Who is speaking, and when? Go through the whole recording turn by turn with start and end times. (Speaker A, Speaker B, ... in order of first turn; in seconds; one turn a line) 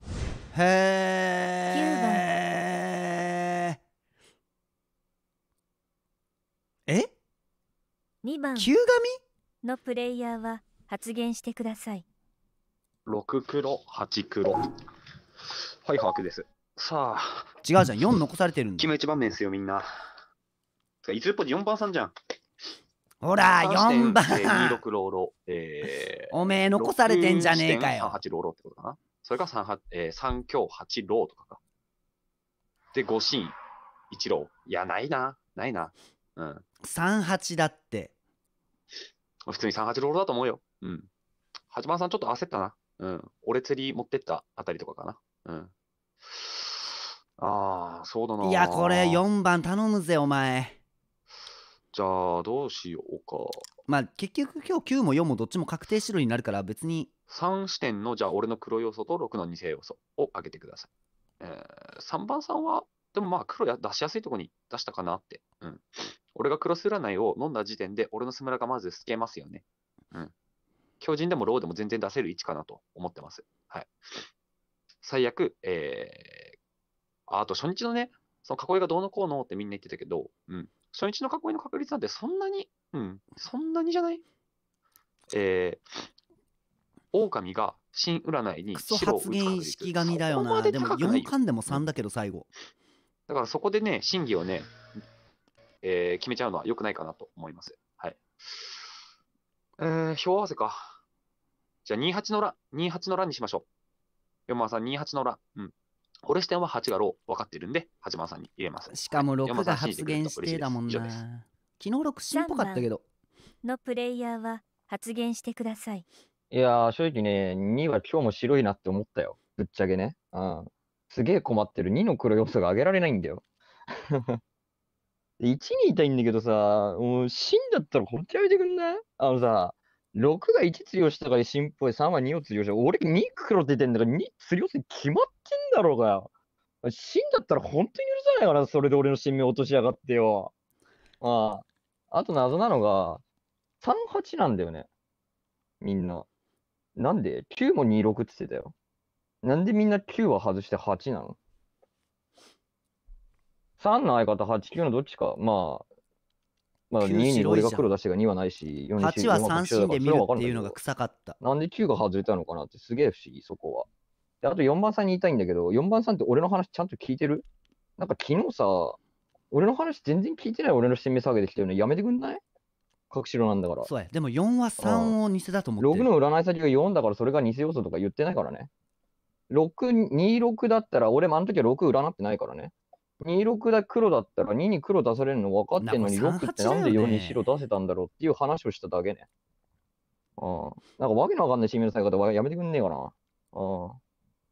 Speaker A: 0.5-3.8
Speaker B: 1.7-2.2
Speaker B: 8.2-8.7
Speaker A: 8.6-9.2
Speaker B: 9.6-12.1
Speaker C: 13.1-14.6
Speaker C: 15.5-17.6
Speaker A: 17.6-18.9
Speaker C: 18.8-20.1
Speaker C: 21.0-22.1
Speaker A: 23.2-24.8
Speaker C: 23.6-31.6
Speaker A: 26.3-28.2
Speaker C: 32.9-33.5
Speaker C: 34.1-36.6
Speaker A: 36.8-38.1
Speaker C: 38.9-41.1
Speaker C: 41.7-49.2
Speaker A: 48.4-50.8
Speaker C: 51.9-53.7
Speaker A: 53.9-57.1
Speaker C: 57.3-60.9
Speaker C: 61.4-70.3
Speaker C: 71.0-74.3
Speaker C: 75.0-76.5
Speaker C: 77.3-84.2
Speaker C: 85.3-86.1
Speaker C: 87.1-91.8
Speaker A: 88.7-92.5
Speaker C: 93.3-94.7
Speaker C: 95.8-98.9
Speaker C: 99.8-101.0
Speaker C: 101.8-103.7
Speaker C: 104.5-105.7
Speaker C: 106.2-111.2
Speaker A: 108.9-113.0
Speaker B: 112.3-112.9
Speaker B: 113.6-116.0
Speaker D: 116.5-123.4
Speaker D: 124.1-124.4
Speaker D: 125.4-136.3
Speaker D: 136.8-140.5
Speaker D: 141.2-143.2
Speaker D: 143.8-144.9
Speaker D: 145.8-146.3
Speaker D: 146.9-148.7
Speaker D: 149.4-151.4
Speaker D: 153.8-155.8
Speaker D: 156.9-160.8
Speaker A: 157.0-157.8
Speaker A: 159.0-161.4
Speaker D: 161.4-163.9
Speaker D: 164.4-167.4
Speaker D: 168.0-169.0
Speaker D: 169.5-172.4
Speaker D: 173.1-173.9
Speaker A: 173.9-176.1
Speaker D: 174.8-175.1
Speaker D: 175.8-178.7
Speaker D: 179.5-189.2
Speaker A: 185.8-187.4
Speaker D: 190.4-194.0